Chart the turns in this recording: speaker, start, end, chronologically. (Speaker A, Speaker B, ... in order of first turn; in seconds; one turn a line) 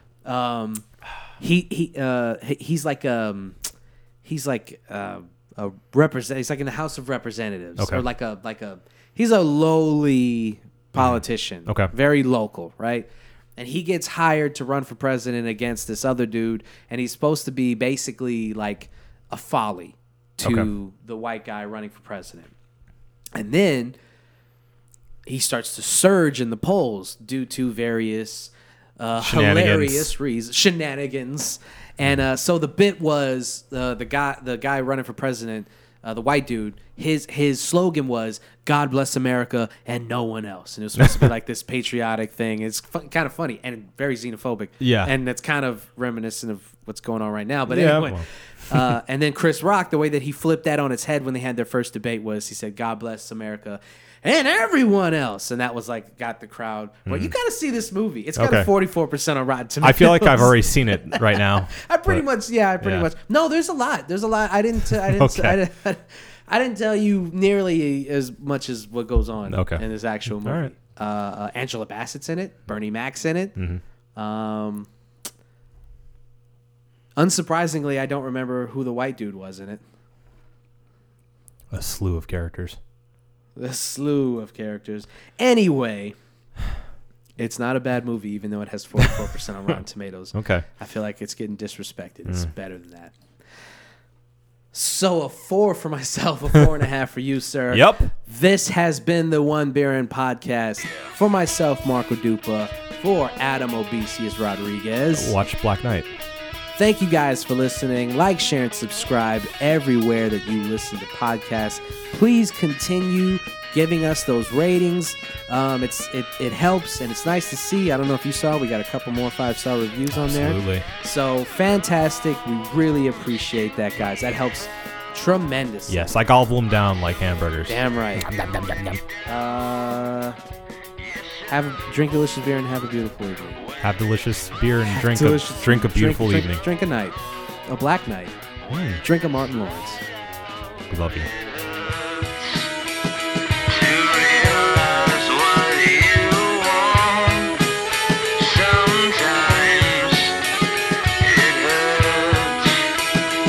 Speaker A: 0.2-0.9
Speaker A: 1.4-3.7
Speaker A: 4.2-22.5
Speaker B: 7.8-8.0
Speaker B: 11.0-11.9
Speaker B: 20.4-20.7
Speaker A: 23.4-24.0
Speaker A: 25.3-73.6
Speaker B: 29.2-30.1
Speaker B: 44.8-45.1
Speaker B: 47.7-49.0
Speaker B: 57.1-57.3
Speaker B: 58.4-58.7
Speaker B: 59.8-62.2
Speaker B: 62.8-63.1
Speaker B: 64.9-65.6
Speaker B: 69.5-69.8
Speaker B: 70.4-70.7
Speaker A: 74.2-74.9
Speaker A: 77.2-79.8
Speaker B: 81.7-82.8
Speaker A: 83.6-86.2
Speaker A: 87.4-93.2
Speaker B: 90.3-90.7
Speaker A: 94.7-105.3
Speaker B: 97.7-98.1
Speaker B: 105.1-106.1
Speaker A: 106.8-126.0
Speaker B: 120.1-120.9
Speaker B: 125.9-129.0
Speaker A: 127.7-128.3
Speaker A: 129.3-130.4
Speaker A: 131.5-133.7
Speaker B: 133.8-136.6
Speaker A: 134.9-138.4
Speaker B: 138.7-139.0
Speaker A: 139.0-140.0
Speaker B: 140.9-141.3
Speaker C: 141.4-142.7
Speaker C: 143.7-147.6
Speaker C: 148.4-150.4
Speaker C: 151.2-152.9